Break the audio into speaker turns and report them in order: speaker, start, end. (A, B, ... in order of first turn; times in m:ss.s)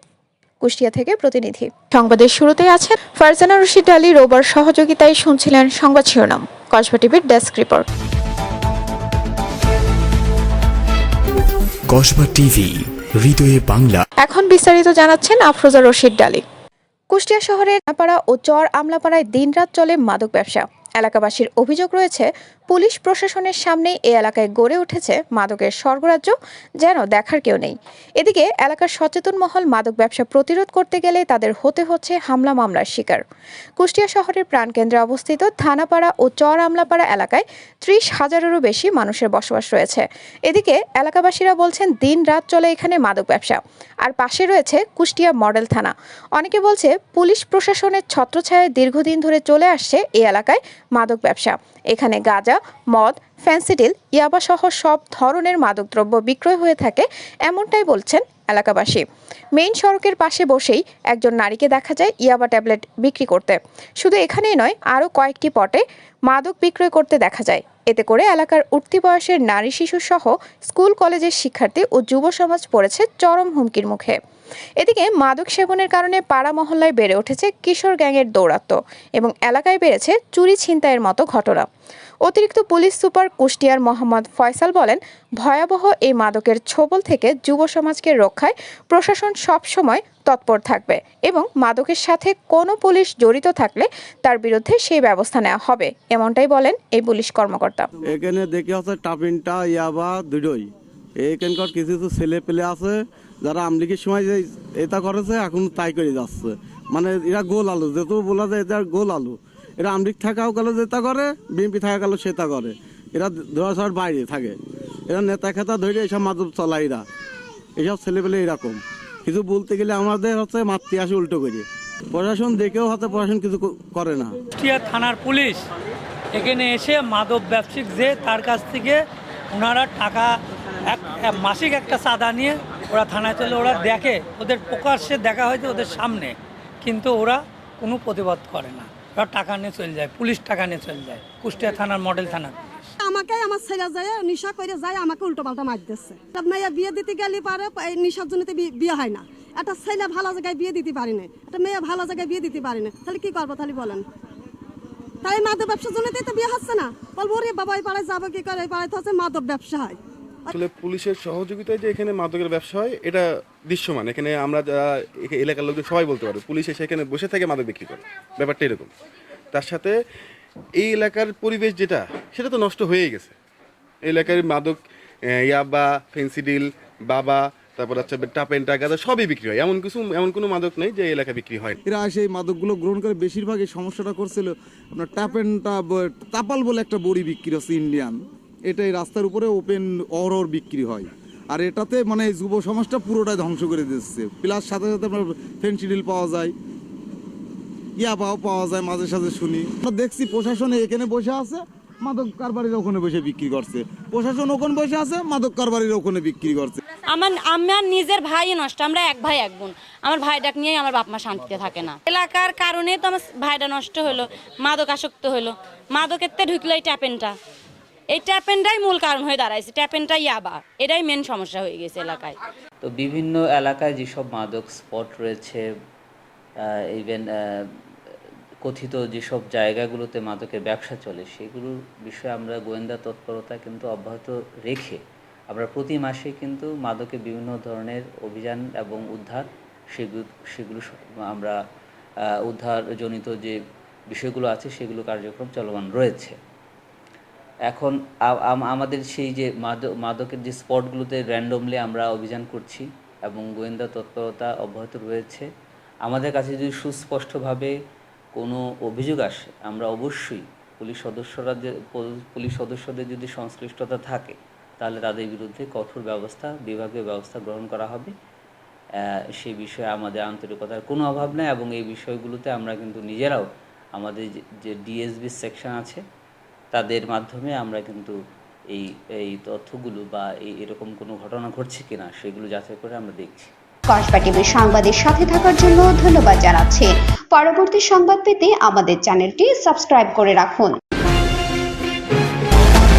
0:00.6-0:07.8 A
0:11.9-0:14.0 B
0:14.2-0:16.4 A
0:17.1-0:33.2 A
0:33.8-0:59.0 A
0:59.5-1:14.2 A
1:14.8-1:21.7 A
1:22.2-1:37.9 A
1:38.0-1:57.0 C
1:57.8-2:04.4 C
2:04.6-2:05.6 D
2:06.3-2:09.0 D
2:09.5-2:10.4 D
2:10.9-2:22.5 D
2:23.0-2:34.0 E
2:35.2-2:40.5 E
2:40.5-2:48.9 F
2:49.5-2:50.0 F
2:50.8-2:53.4 F
2:54.0-3:01.8 F
3:01.8-3:16.5 G
3:18.0-3:26.8 G
3:27.1-3:37.3 H
3:38.1-3:42.4 H
3:42.8-3:45.6 I
3:46.9-3:47.7 I
3:48.6-4:01.6 I
4:02.4-4:03.6 I
4:04.1-4:06.4 I
4:07.7-4:15.5 I
4:16.0-4:17.7 I
4:18.4-4:28.1 I
4:29.4-4:36.0 I
4:36.7-4:38.2 I
4:38.7-4:43.5 I
4:43.9-4:50.8 J